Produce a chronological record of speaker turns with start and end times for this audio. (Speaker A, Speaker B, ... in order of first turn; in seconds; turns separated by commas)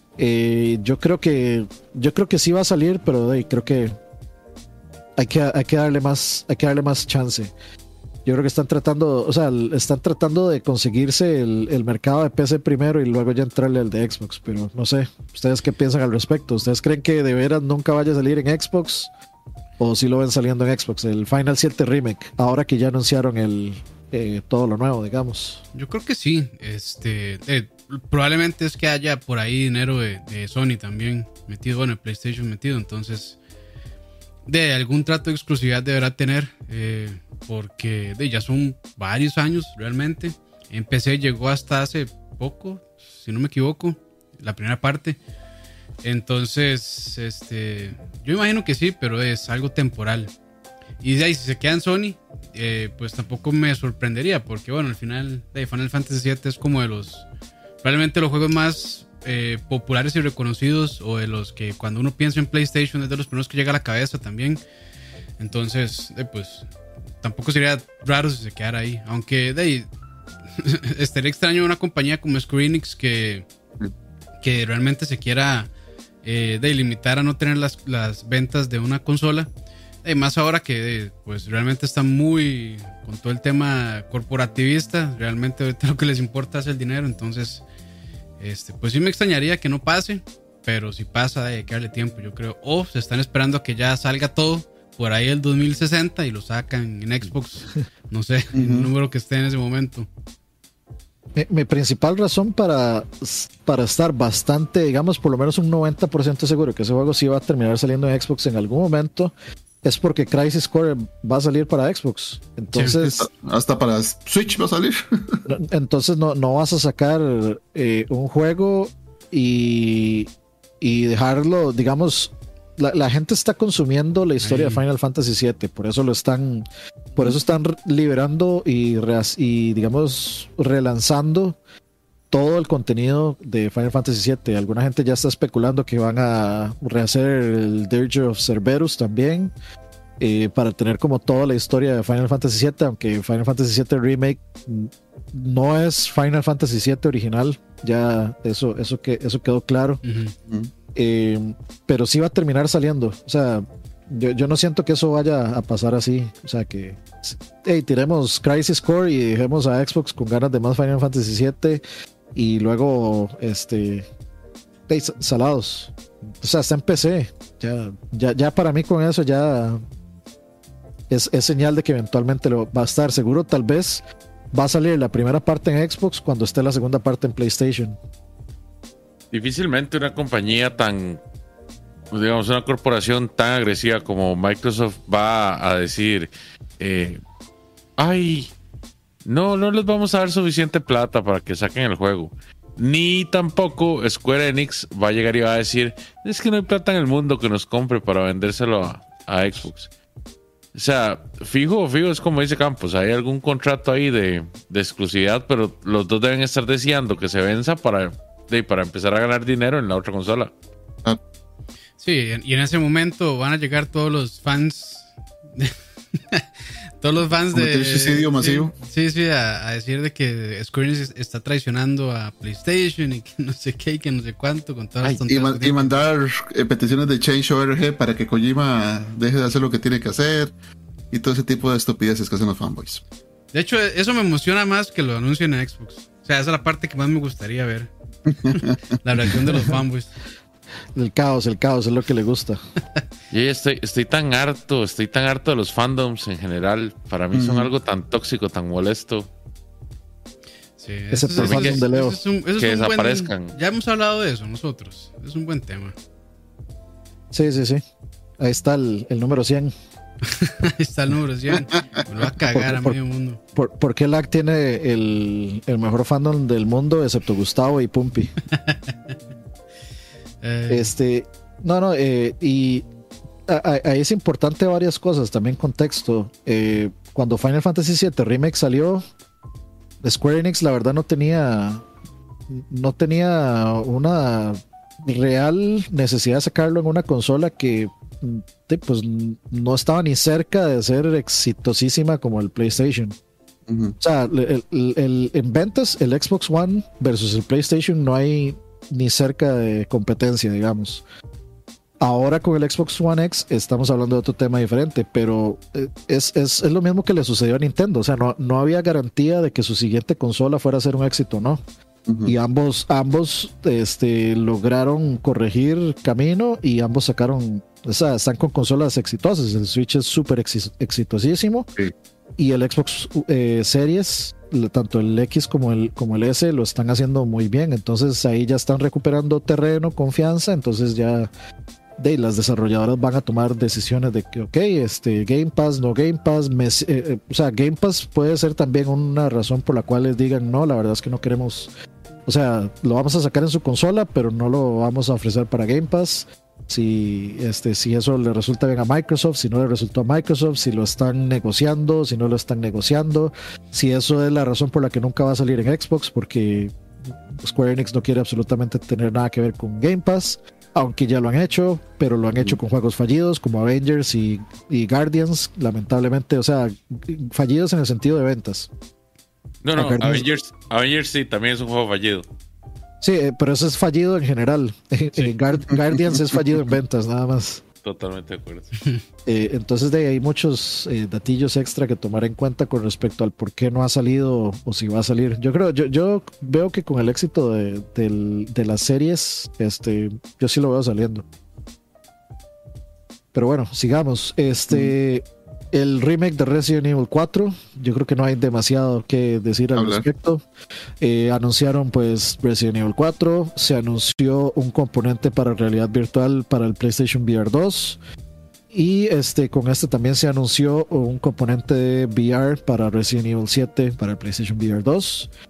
Speaker A: 0.2-3.9, Speaker A: 5.2-7.5, Speaker A: 8.2-19.1, Speaker A: 19.8-25.6, Speaker B: 25.7-33.4, Speaker B: 34.5-45.2, Speaker B: 46.0-50.3, Speaker B: 51.0-57.2, Speaker B: 57.8-64.6, Speaker B: 65.4-66.7, Speaker B: 67.2-69.9, Speaker B: 70.6-73.5, Speaker B: 74.4-75.7, Speaker B: 76.2-79.5, Speaker B: 80.0-87.6, Speaker B: 88.4-100.1, Speaker C: 98.5-98.9, Speaker A: 101.3-113.3, Speaker C: 113.0-115.4, Speaker A: 115.5-120.3, Speaker A: 120.8-126.7, Speaker B: 124.4-124.8, Speaker A: 127.2-131.6, Speaker A: 132.3-139.5, Speaker A: 140.2-150.0, Speaker B: 150.0-150.3, Speaker A: 150.9-161.8, Speaker A: 162.3-164.1, Speaker A: 164.9-169.8, Speaker A: 171.1-178.0, Speaker D: 179.3-181.2, Speaker D: 182.1-187.2, Speaker D: 188.0-188.5, Speaker D: 189.2-199.9, Speaker D: 200.7-210.5, Speaker B: 212.0-216.4, Speaker B: 217.0-226.0, Speaker C: 217.5-218.7, Speaker C: 225.0-230.5, Speaker C: 231.1-233.0, Speaker B: 233.5-237.9, Speaker B: 238.5-240.1, Speaker A: 240.9-242.6, Speaker D: 243.3-249.3, Speaker C: 247.3-247.7, Speaker B: 250.8-255.9, Speaker A: 251.1-252.2, Speaker D: 251.3-251.8, Speaker D: 252.6-253.5, Speaker A: 257.3-257.8, Speaker A: 258.4-259.7, Speaker B: 260.3-263.4, Speaker A: 262.5-263.0, Speaker A: 263.5-268.3, Speaker B: 268.5-268.9, Speaker B: 270.4-270.9, Speaker A: 270.7-272.9, Speaker A: 273.5-279.0, Speaker A: 280.0-281.8, Speaker A: 282.5-293.1, Speaker C: 293.7-293.9, Speaker A: 294.0-301.0, Speaker A: 302.0-311.6, Speaker C: 312.1-312.3, Speaker A: 312.2-321.7, Speaker A: 322.4-331.3, Speaker A: 332.0-341.7, Speaker A: 342.2-356.8, Speaker A: 357.3-368.7, Speaker D: 369.6-372.2, Speaker A: 369.8-370.3, Speaker A: 373.0-377.6, Speaker D: 377.8-378.7, Speaker A: 379.2-391.2, Speaker A: 393.3-400.4, Speaker C: 399.8-400.1, Speaker A: 401.0-408.0, Speaker A: 408.7-415.3